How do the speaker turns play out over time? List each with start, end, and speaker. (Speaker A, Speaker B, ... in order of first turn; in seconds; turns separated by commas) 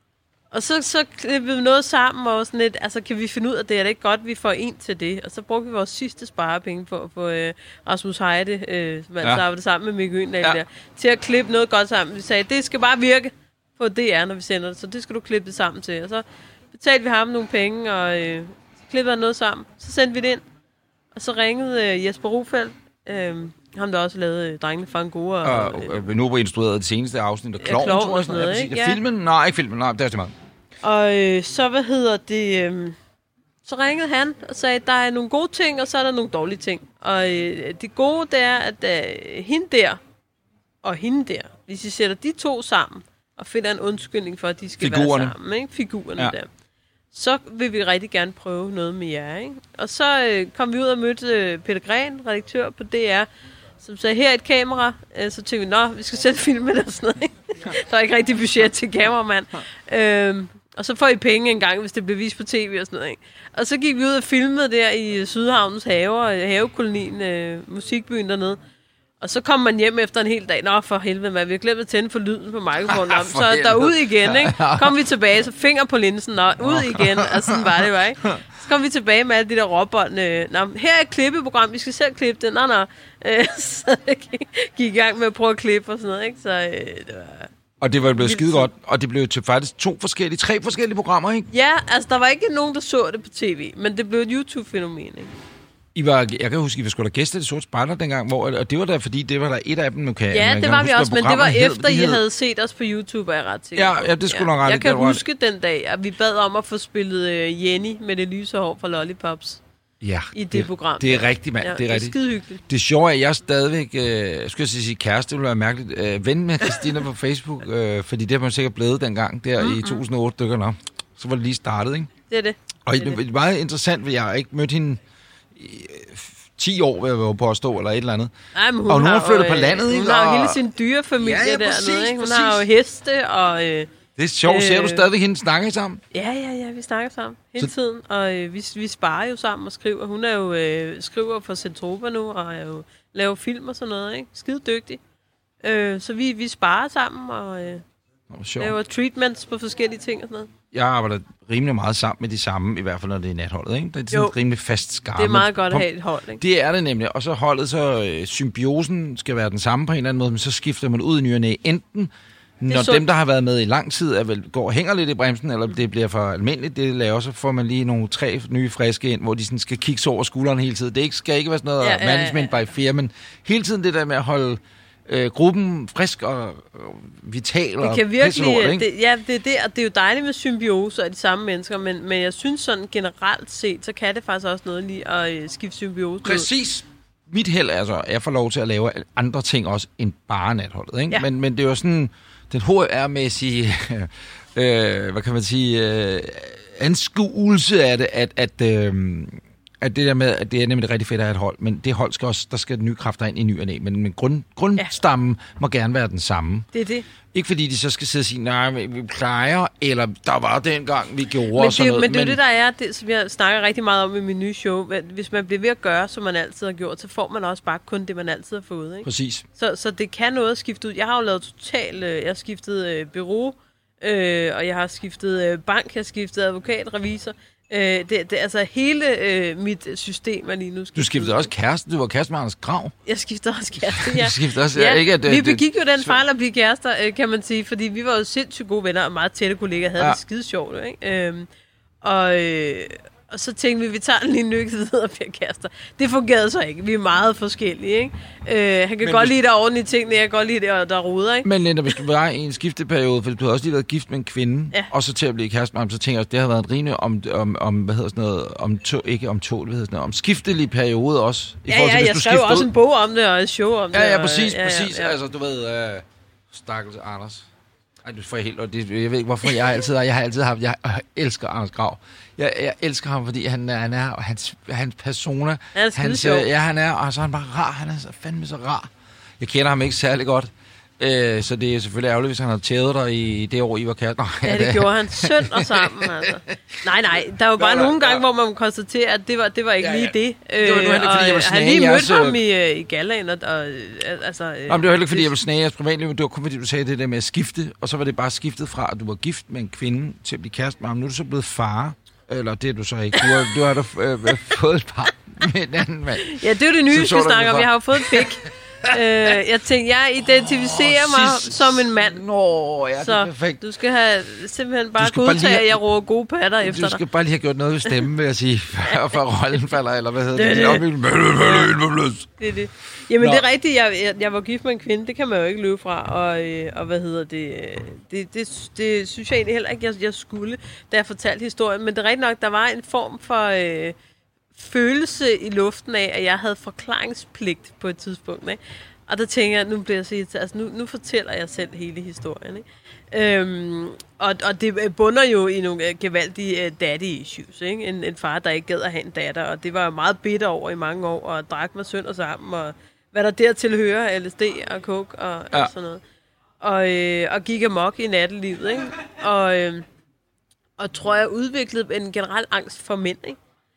Speaker A: 0.5-20.4, Speaker A: 21.1-26.0, Speaker B: 25.4-30.3, Speaker A: 27.6-29.0, Speaker A: 30.8-33.0, Speaker A: 33.6-40.0, Speaker A: 40.8-46.5, Speaker B: 44.8-45.4, Speaker A: 47.1-53.3, Speaker A: 53.8-68.6, Speaker A: 69.2-87.5, Speaker B: 72.9-74.9, Speaker B: 76.7-78.4, Speaker B: 87.8-91.5, Speaker A: 88.2-88.7, Speaker A: 91.5-95.3, Speaker B: 96.0-102.2, Speaker A: 100.3-109.6, Speaker B: 103.8-105.2, Speaker B: 110.0-112.2, Speaker A: 110.3-112.6, Speaker B: 112.7-122.1, Speaker A: 119.6-120.0, Speaker A: 122.3-123.2, Speaker B: 122.8-125.0, Speaker B: 125.5-128.3, Speaker A: 128.6-133.9, Speaker B: 128.9-130.6, Speaker B: 131.2-132.6, Speaker B: 134.2-136.0, Speaker A: 134.5-135.1, Speaker A: 136.1-145.0, Speaker A: 145.6-147.8, Speaker B: 148.3-148.8, Speaker A: 148.6-150.5, Speaker B: 150.7-155.9, Speaker A: 155.2-156.4, Speaker B: 156.4-162.1, Speaker B: 162.6-178.9, Speaker A: 162.7-163.0, Speaker A: 171.8-172.6, Speaker A: 177.8-186.5, Speaker B: 186.2-206.7, Speaker A: 206.7-207.1, Speaker B: 207.3-212.4, Speaker A: 211.5-231.5, Speaker B: 219.0-219.4, Speaker B: 230.9-232.9, Speaker A: 233.1-241.5, Speaker B: 233.8-236.2, Speaker A: 242.0-252.0, Speaker B: 249.0-249.3, Speaker B: 251.4-262.7, Speaker A: 261.7-265.2, Speaker B: 263.9-267.5, Speaker B: 268.0-286.5, Speaker A: 275.8-276.5, Speaker A: 284.4-295.4, Speaker B: 287.6-288.2, Speaker B: 289.8-292.4, Speaker B: 294.7-308.3, Speaker A: 303.2-303.5, Speaker A: 306.2-312.2, Speaker B: 310.6-313.6, Speaker A: 313.0-317.0, Speaker B: 315.0-315.8, Speaker B: 316.6-322.3, Speaker A: 318.9-319.1, Speaker A: 320.4-321.7, Speaker A: 322.4-334.0, Speaker B: 323.2-323.4, Speaker A: 334.6-356.0, Speaker A: 356.6-359.9, Speaker A: 360.8-363.4